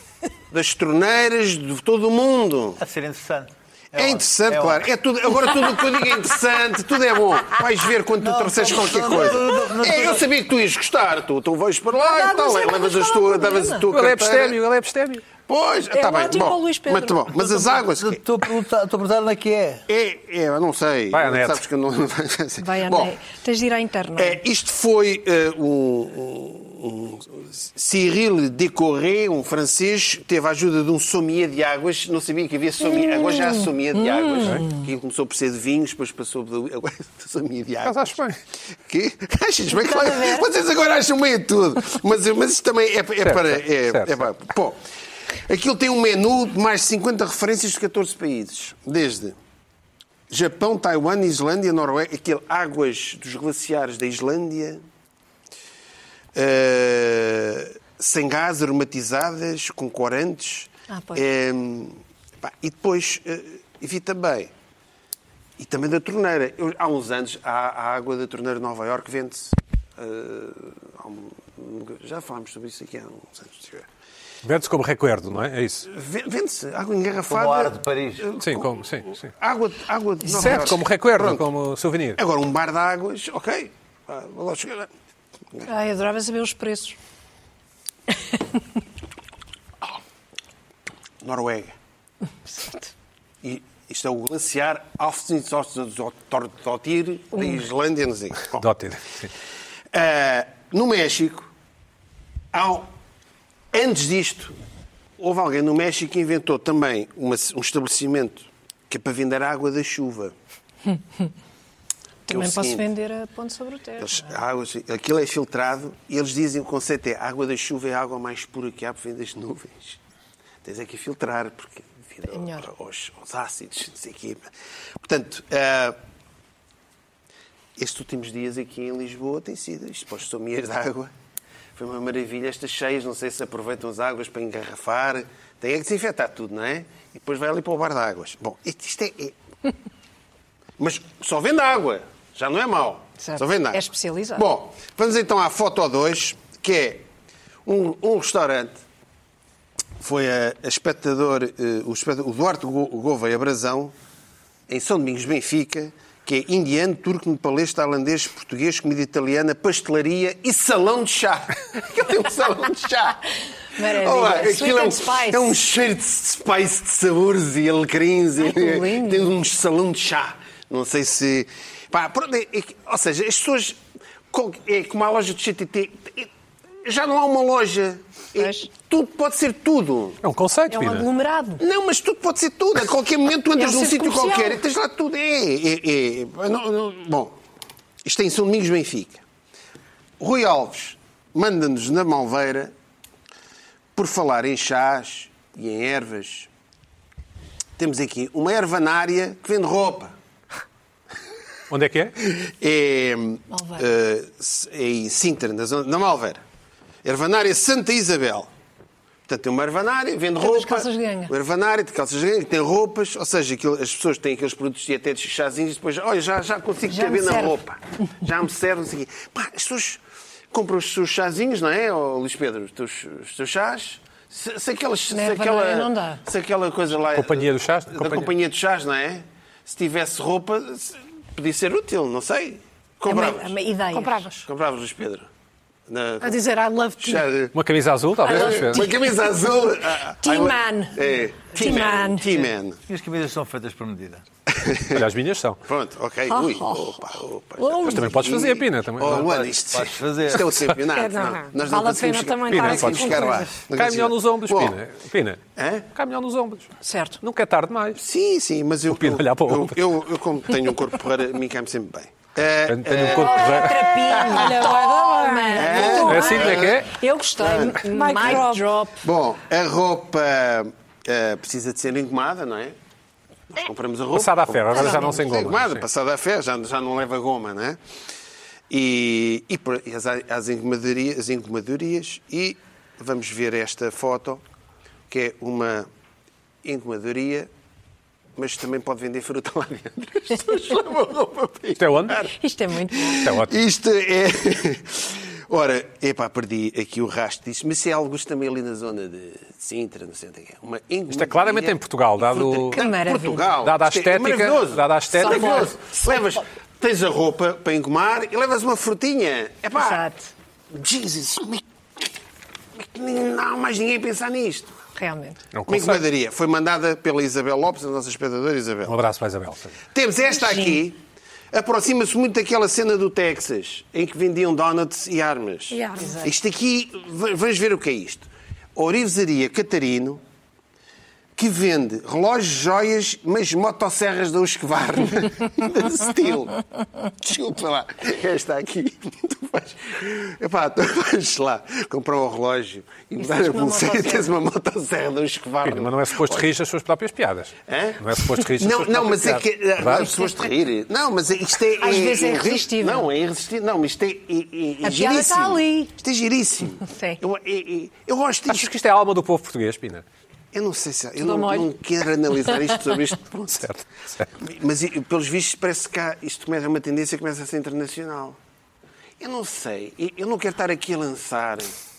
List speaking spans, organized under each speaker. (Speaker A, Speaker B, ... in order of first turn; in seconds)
Speaker A: 0.5-2.8, 4.0-14.6, 15.5-18.2, 19.9-23.2, 24.2-38.2, 38.9-44.8, 45.4-49.4, 50.3-54.8, 56.4-64.5, 65.6-73.9, 75.9-81.5, 82.2-84.9, 91.2-91.8, 93.4-98.6, 99.9-101.5, 102.5-102.9, 103.7-104.6, 105.2-110.3, 112.3-112.9, 114.0-120.0, 120.6-126.0, 127.8-131.1, 131.8-139.4, 140.8-147.1, 147.7-148.8, 150.0-153.9, 154.7-163.2, 163.8-173.8, 174.3-176.3, 176.8-180.2, 181.6-187.4, 188.0-189.2, 190.2-192.7, 194.0-196.5, 197.8-200.2, 202.2-206.4, 207.0-208.5, 209.3-233.6, 234.5-235.3, 235.9-236.4, 237.0-237.6, 238.2-242.8, 244.5-245.1, 245.7-254.8, 255.6-255.9, 257.9-264.6, 265.5-266.8, 267.4-268.4, 269.0-272.8, 273.5-277.8, 278.7-284.4, 285.1-285.9, 286.6-287.5, 288.4-292.4, 292.9-310.1, 310.7-311.6, 312.8-314.8, 315.7-319.0, 319.9-321.0, 321.5-330.2, 331.4-346.5, 347.7-358.7, 360.5-363.7, 364.4-368.4, 369.2-371.8
Speaker B: 2.8-4.9, 8.2-10.2, 18.0-19.8, 77.3-78.3, 242.9-244.2, 249.1-250.5
Speaker C: 12.0-13.9, 15.9-17.9, 22.6-24.4, 32.8-34.9, 39.7-40.5, 60.9-61.2, 80.3-80.7, 85.7-87.0, 88.3-88.6, 92.6-92.9, 112.3-114.4, 122.3-122.7, 143.2-144.5, 163.8-165.5, 168.4-169.3, 178.4-178.7, 180.7-181.6, 183.6-184.6, 203.5-203.9, 210.4-211.3, 216.9-217.6, 225.1-226.2, 233.1-234.3, 238.2-239.5, 240.2-242.4, 246.3-248.1, 256.8-257.2, 263.1-269.0, 274.8-275.0, 292.3-293.3, 302.8-303.6, 305.2-306.2, 309.8-310.3, 315.0-315.4, 320.3-320.8, 326.0-326.3, 343.2-344.3, 350.0-350.3, 351.8-353.1, 354.8-355.9, 356.9-357.2, 361.2-361.7
Speaker D: 13.9-15.2, 21.1-21.6, 37.8-38.4, 43.2-44.3, 74.4-75.9, 78.4-79.3, 80.3-82.2, 98.5-99.3, 180.2-181.1, 201.7-202.2, 227.1-228.3, 237.5-238.9, 244.9-245.6, 247.8-249.3, 252.5-255.4, 255.9-258.0, 258.9-259.8, 262.7-263.9, 265.9-266.9, 274.1-275.9, 291.8-292.2, 293.2-293.5, 301.1-302.8, 303.6-305.7, 315.5-316.0, 318.9-319.8, 345.6-350.1, 358.5-360.0, 363.6-364.3
Speaker E: 233.9-234.5, 236.2-237.3, 250.9-253.6, 264.1-266.3, 267.9-268.7, 325.7-326.2